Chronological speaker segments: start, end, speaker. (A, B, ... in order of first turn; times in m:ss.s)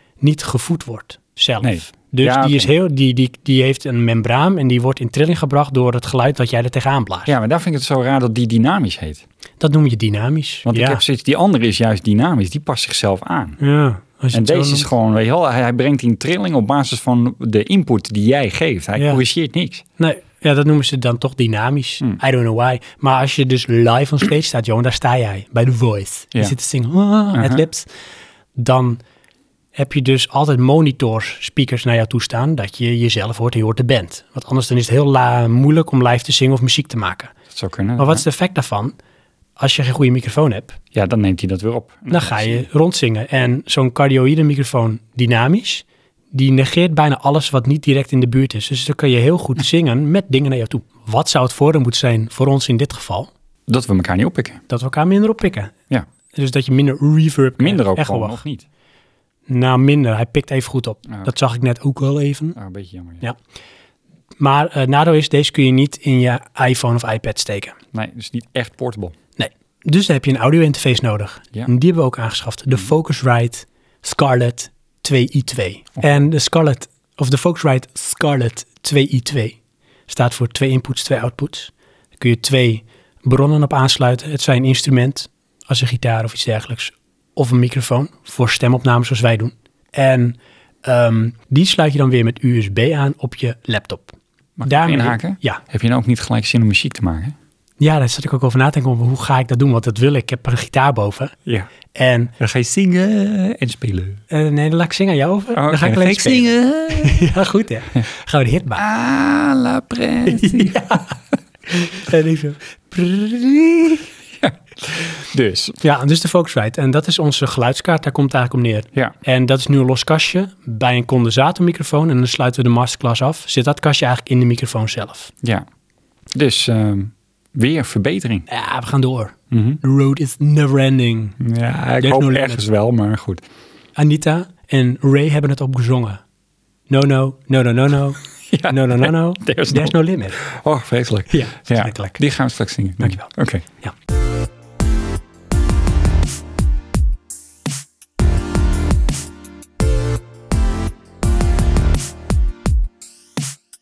0:00.2-0:07.4 A
0:01.6-0:02.7 B
0:07.2-0:09.2 B
0:09.6-0:11.0 A
0:10.6-0:13.6 B
0:13.6-0:14.9 A
0:14.3-0:19.8 B
0:19.0-0:19.2 A
0:20.0-0:27.9 A
0:27.3-0:27.6 B
0:28.6-0:29.0 A
0:29.8-0:37.3 A
0:37.5-0:38.2 B
0:38.0-0:38.9 A
0:39.6-0:40.8 A
0:40.9-0:42.6 B
0:42.1-0:53.3 A
0:53.7-0:54.6 B
0:54.7-0:55.7 A
0:56.3-0:58.4 A
0:57.6-0:58.6 B
0:59.5-1:02.6 A
1:02.5-1:03.2 B
1:04.4-1:07.8 A
1:07.9-1:09.1 B
1:09.4-1:19.6 A
1:20.1-1:35.6 A
1:34.6-1:37.4 B
1:37.8-1:41.4 A
1:41.4-1:41.7 B
1:41.9-1:42.3 A
1:42.4-1:44.2 B
1:44.3-1:48.8 A
1:45.5-1:47.2 B
1:48.8-1:51.0 B
1:50.2-1:51.1 A
1:51.7-1:54.1 A
1:54.4-1:55.8 B
1:55.8-2:05.3 A
2:06.3-2:08.4 B
2:08.5-2:11.4 A
2:09.5-2:09.8 B
2:11.4-2:13.4 B
2:12.0-2:12.6 A
2:14.0-2:16.2 A
2:16.9-2:20.4 A
2:18.5-2:23.6 B
2:21.3-2:22.2 A
2:23.0-2:23.9 A